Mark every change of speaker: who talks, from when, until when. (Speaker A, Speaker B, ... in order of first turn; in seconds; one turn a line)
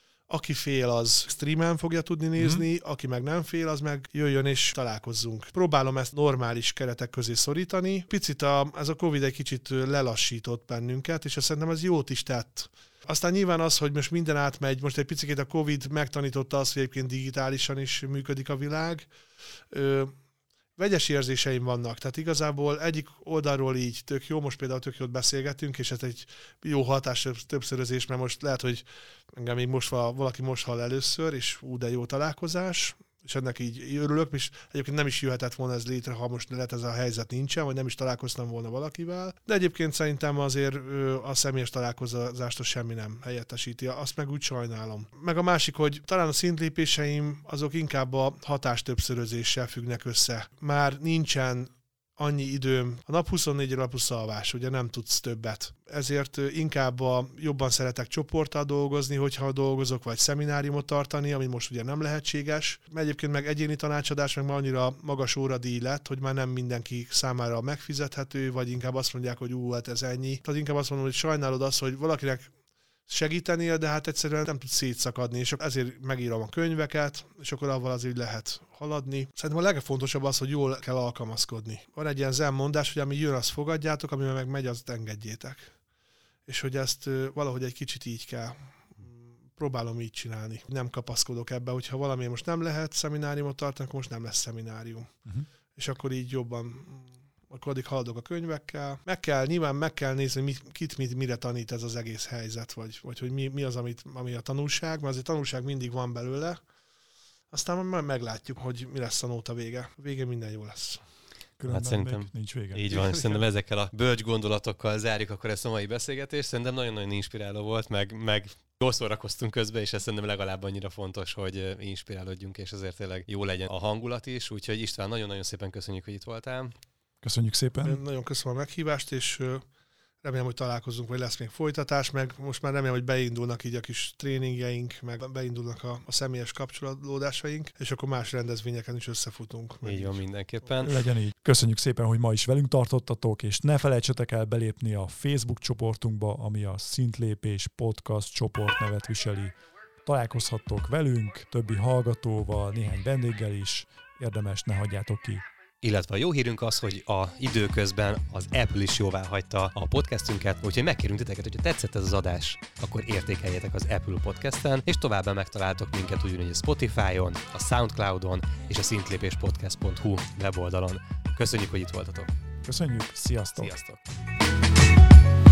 Speaker A: 0.3-19.1
Speaker A: 19.7-20.1
Speaker A: 20.8-72.5
Speaker A: 73.1-85.7
Speaker A: 86.5-95.1
Speaker A: 95.7-106.6
Speaker A: 107.5-111.0
Speaker B: 111.6-112.9
Speaker C: 111.7-126.7
Speaker A: 112.9-113.5
Speaker B: 127.2-128.0
Speaker A: 127.8-129.6
Speaker A: 130.2-140.2
Speaker C: 139.8-141.1
Speaker B: 140.8-155.4
Speaker C: 155.8-172.3
Speaker B: 172.6-174.1